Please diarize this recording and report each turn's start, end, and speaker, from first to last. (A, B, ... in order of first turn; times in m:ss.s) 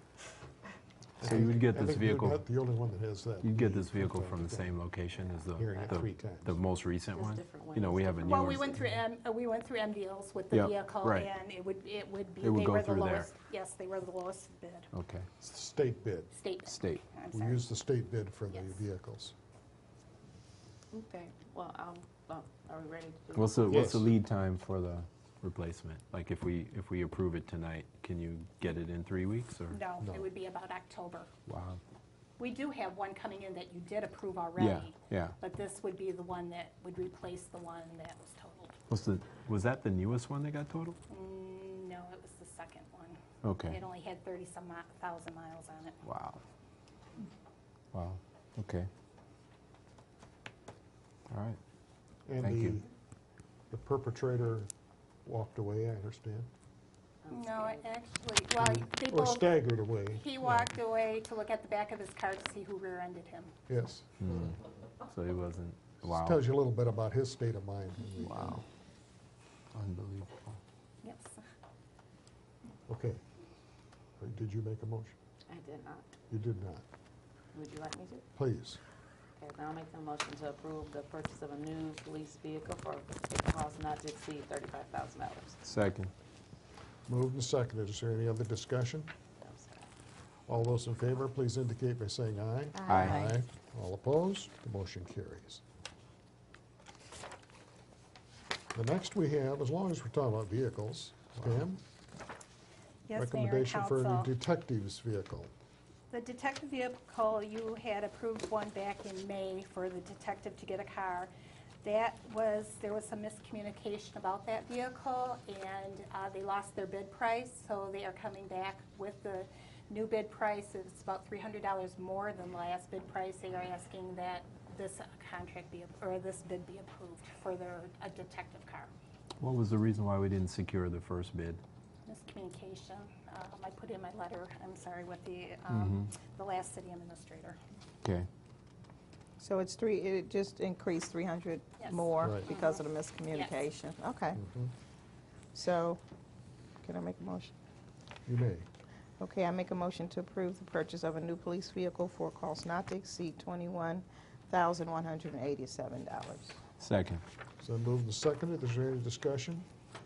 0:01.2-0:04.8 A
0:01.2-0:02.5 B
0:03.4-0:08.8 B
0:05.5-0:06.6 A
0:07.1-0:08.6 C
0:08.2-0:14.9 D
0:10.5-0:11.3 B
0:12.4-0:13.3 B
0:14.9-0:15.3 B
0:15.4-0:16.3 A
0:16.3-0:17.6 D
0:16.6-0:17.1 B
0:17.3-0:19.3 A
0:18.5-0:18.8 D
0:20.9-0:23.9 C
0:23.3-0:29.8 B
0:23.7-0:24.1 A
0:29.7-0:31.3 D
0:30.0-0:30.3 A
0:31.5-0:31.8 B
0:32.4-0:38.8 D
0:34.6-0:35.4 B
0:38.9-0:41.0 B
0:41.1-0:46.0 D
0:43.4-0:43.8 B
0:46.0-0:46.4 B
0:47.9-0:48.9 B
0:51.3-0:51.6 B
0:52.3-0:52.9 A
0:52.4-0:52.8 B
0:53.7-0:54.7 A
0:55.2-0:56.5 A
0:57.2-0:57.9 C
0:57.3-0:59.6 D
0:58.5-1:00.8 A
1:00.1-1:03.5 D
1:03.7-1:04.1 A
1:04.2-1:06.5 B
1:06.1-1:08.6 A
1:08.2-1:08.6 B
1:09.7-1:10.6 B
1:11.0-1:11.4 D
1:12.9-1:13.2 A
1:14.2-1:15.2 A
1:15.5-1:16.1 C
1:16.3-1:16.8 A
1:17.5-1:18.3 C
1:18.4-1:18.8 A
1:19.4-1:25.6 C
1:25.6-1:26.1 B
1:27.1-1:29.1 A
1:29.4-1:29.8 C
1:30.5-1:35.6 A
1:32.7-1:33.3 E
1:32.9-1:33.2 B
1:32.9-1:33.4 C
1:38.7-1:41.8 A
1:43.1-1:44.3 D
1:43.2-1:45.5 A
1:46.1-1:51.3 D
1:51.8-2:08.9 D
2:09.4-2:11.6 B
2:12.1-2:17.6 D
2:15.7-2:16.0 B
2:19.4-2:24.4 E
2:21.8-2:22.8 D
2:22.2-2:22.5 A
2:23.3-2:23.6 D
2:24.4-2:24.7 A
2:25.5-2:26.0 E
2:26.8-2:27.5 E
2:28.3-2:28.7 A
2:29.2-2:36.6 E
2:36.8-2:37.2 B
2:37.6-2:39.7 A